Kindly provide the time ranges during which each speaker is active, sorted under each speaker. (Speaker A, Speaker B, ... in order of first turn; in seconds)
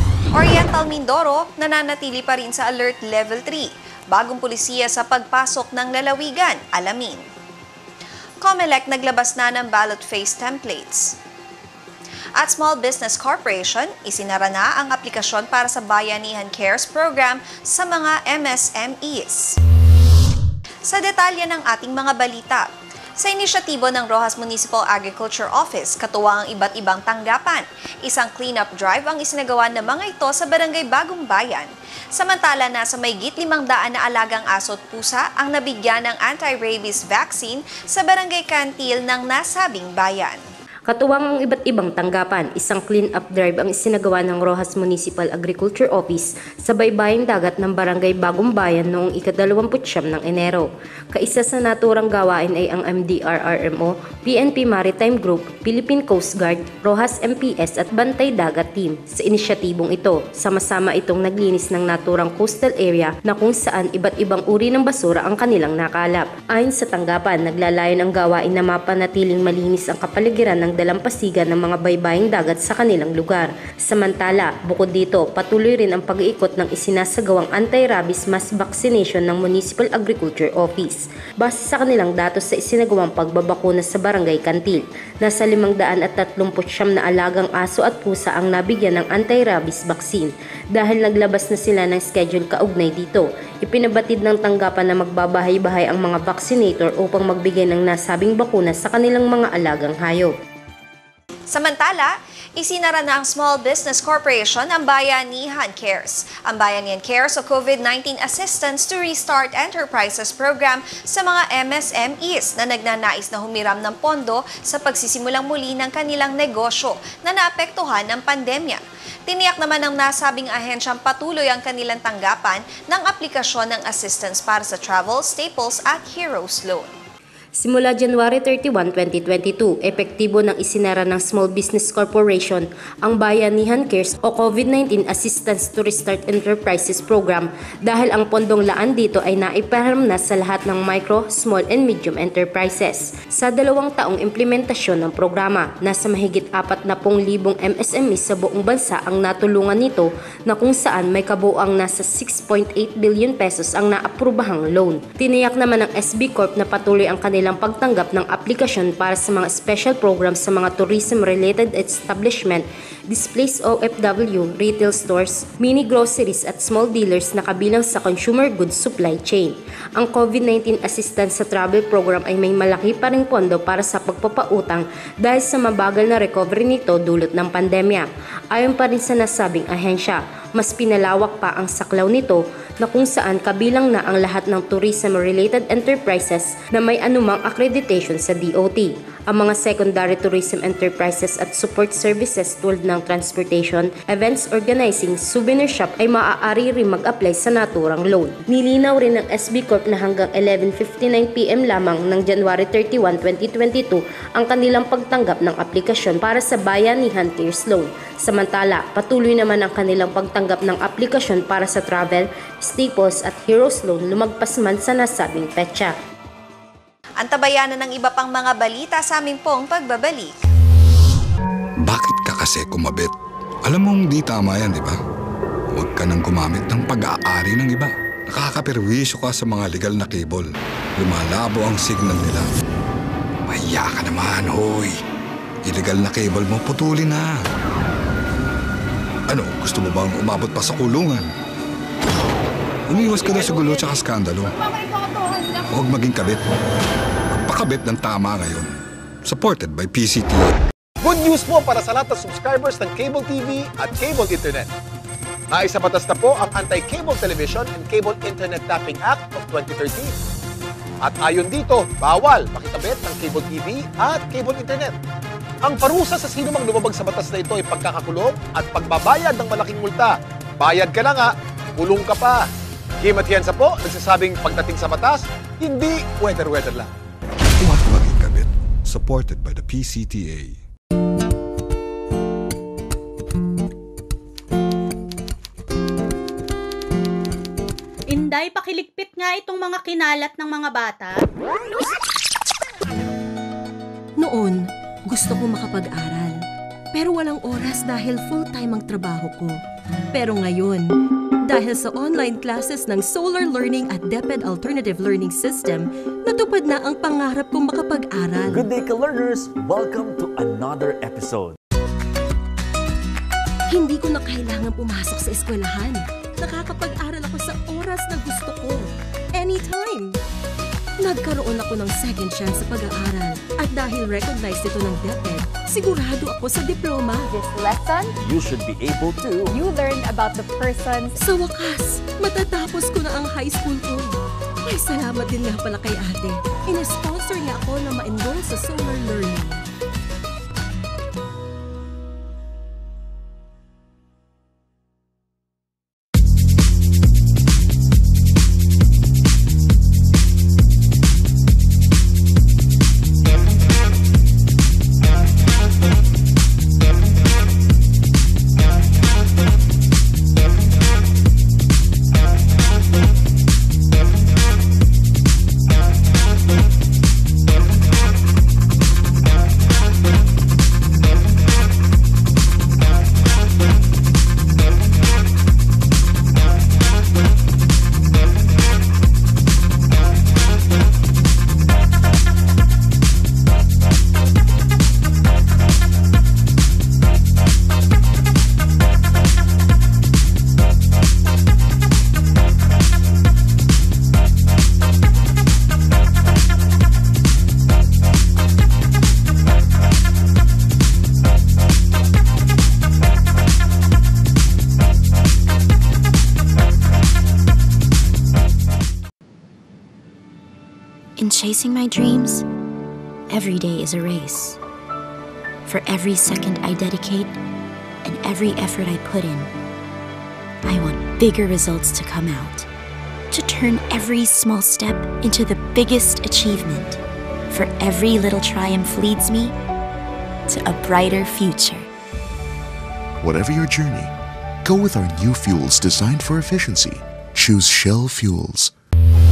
Speaker A: 0.3-7.3, 8.4-11.2, 12.4-19.6, 20.9-22.7, 23.2-40.4, 101.5-126.9, 217.2-220.3
Speaker B: 40.9-100.3, 127.6-215.9
Speaker C: 221.8-223.1, 223.7-225.0, 225.7-230.5, 231.0-232.5, 233.5-234.9, 235.6-237.3, 239.3-241.2, 242.9-244.6, 245.7-246.4, 247.3-248.7, 249.2-250.6, 277.6-280.6
Speaker D: 251.0-254.7, 255.5-260.1, 261.0-264.9, 265.6-272.5, 273.0-276.9
Speaker E: 288.1-291.3
Speaker F: 294.2-296.4, 296.9-299.6, 300.1-300.9, 301.5-308.7, 313.7-320.1, 321.0-327.3, 331.1-339.6
Speaker G: 308.5-311.6, 328.2-329.6
Speaker H: 327.3-328.1, 329.5-331.2
Speaker I: 411.2-412.4, 413.3-414.6, 415.6-417.4, 418.0-419.5, 420.6-422.7, 423.3-429.5, 430.5-431.9
Speaker J: 433.2-434.1, 434.6-438.7